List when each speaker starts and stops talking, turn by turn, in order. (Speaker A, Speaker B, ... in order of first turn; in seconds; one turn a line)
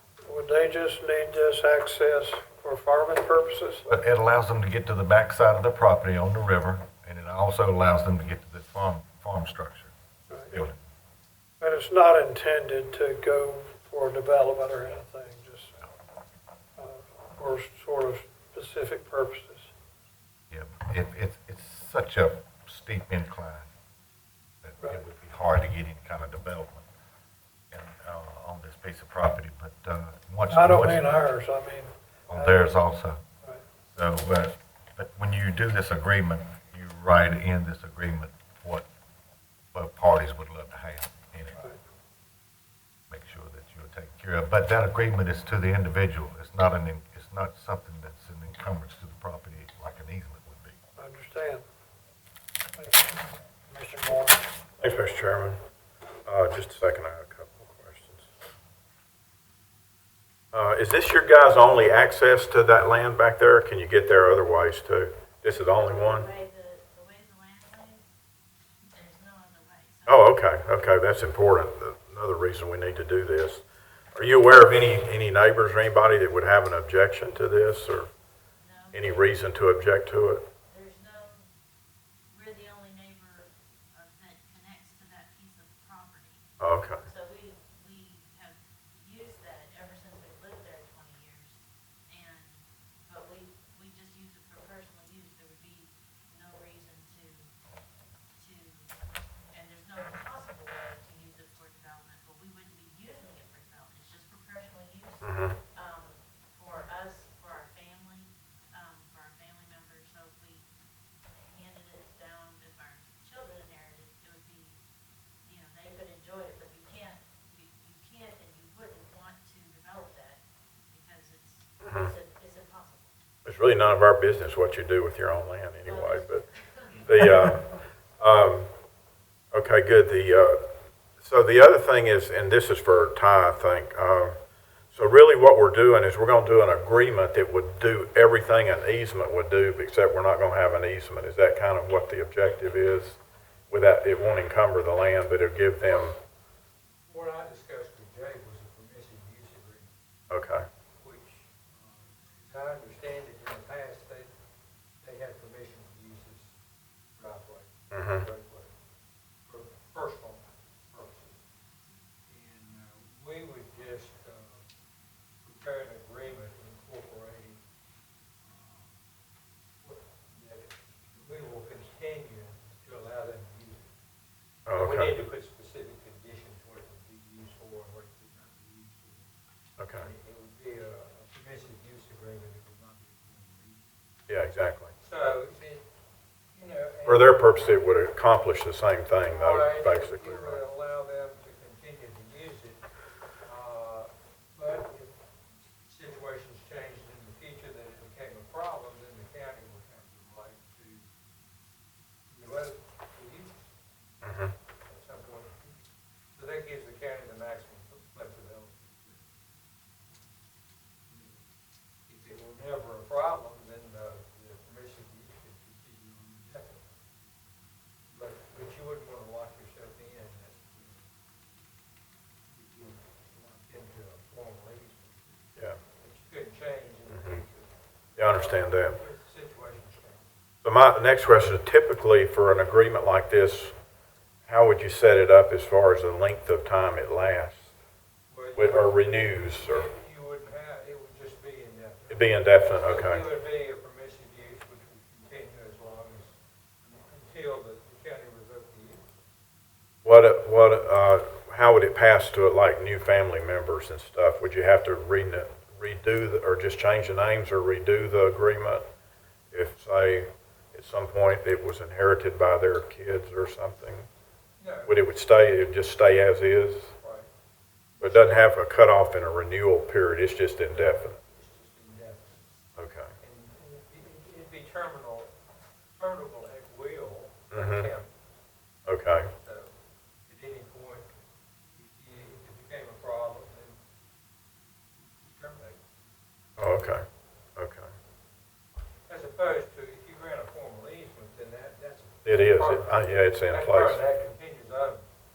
Speaker A: 0.2-4.0
Speaker B: 3.9-9.9
Speaker A: 10.3-10.5
Speaker B: 10.5-10.8
Speaker A: 11.6-15.8
Speaker A: 16.8-19.7
Speaker B: 20.5-23.7
Speaker B: 24.6-26.9
Speaker B: 27.7-31.1
Speaker A: 30.5-32.7
Speaker B: 32.3-33.2
Speaker B: 33.9-38.9
Speaker B: 39.7-41.7
Speaker B: 43.1-50.8
Speaker A: 51.0-51.6
Speaker A: 52.8-54.4
Speaker C: 54.8-55.6
Speaker C: 56.3-58.3
Speaker C: 60.5-66.3
Speaker D: 65.6-68.1
Speaker D: 68.9-70.3
Speaker C: 70.1-78.1
Speaker D: 78.6-79.4
Speaker C: 78.9-80.5
Speaker D: 80.7-81.5
Speaker D: 82.3-86.5
Speaker C: 86.6-87.1
Speaker D: 87.1-97.5
Speaker D: 98.4-98.9
Speaker D: 99.5-110.7
Speaker C: 105.2-105.6
Speaker D: 111.4-114.8
Speaker D: 115.4-123.1
Speaker C: 121.8-122.1
Speaker C: 123.5-126.5
Speaker D: 125.8-127.2
Speaker C: 127.0-128.7
Speaker C: 129.5-134.4
Speaker C: 134.9-146.2
Speaker E: 147.1-150.0
Speaker C: 150.3-150.7
Speaker E: 151.0-154.3
Speaker E: 155.0-156.6
Speaker E: 157.2-158.7
Speaker C: 157.9-158.3
Speaker E: 159.4-161.4
Speaker E: 162.3-164.7
Speaker E: 165.4-167.6
Speaker E: 168.4-169.0
Speaker E: 169.8-173.9
Speaker C: 174.7-175.2
Speaker E: 174.7-179.3
Speaker C: 179.8-180.1
Speaker E: 180.0-183.9
Speaker C: 184.3-184.9
Speaker E: 185.0-185.9
Speaker E: 186.5-187.9
Speaker C: 187.1-190.6
Speaker E: 189.2-192.8
Speaker E: 193.4-195.1
Speaker E: 195.7-201.1
Speaker E: 202.3-203.7
Speaker C: 204.2-204.6
Speaker E: 204.8-205.8
Speaker E: 206.3-209.2
Speaker E: 211.1-211.4
Speaker E: 212.1-217.0
Speaker E: 218.1-221.0
Speaker E: 222.5-230.4
Speaker C: 225.6-225.8
Speaker C: 227.1-227.4
Speaker C: 228.2-229.0
Speaker C: 230.6-233.8
Speaker C: 234.5-237.8
Speaker E: 238.3-249.1
Speaker C: 238.5-239.9
Speaker C: 242.1-243.3
Speaker C: 250.0-258.9
Speaker C: 259.5-264.1
Speaker E: 264.6-264.9
Speaker C: 264.9-266.9
Speaker E: 267.0-267.3
Speaker E: 267.9-268.6
Speaker C: 268.0-271.2
Speaker E: 270.7-272.4
Speaker C: 272.8-273.1
Speaker E: 273.2-275.3
Speaker E: 275.9-278.1
Speaker C: 277.5-277.9
Speaker C: 278.9-279.3
Speaker E: 279.4-279.7
Speaker E: 280.3-281.1
Speaker E: 281.7-283.8
Speaker E: 284.9-285.8
Speaker C: 286.6-287.9
Speaker E: 289.1-295.0
Speaker C: 292.2-294.0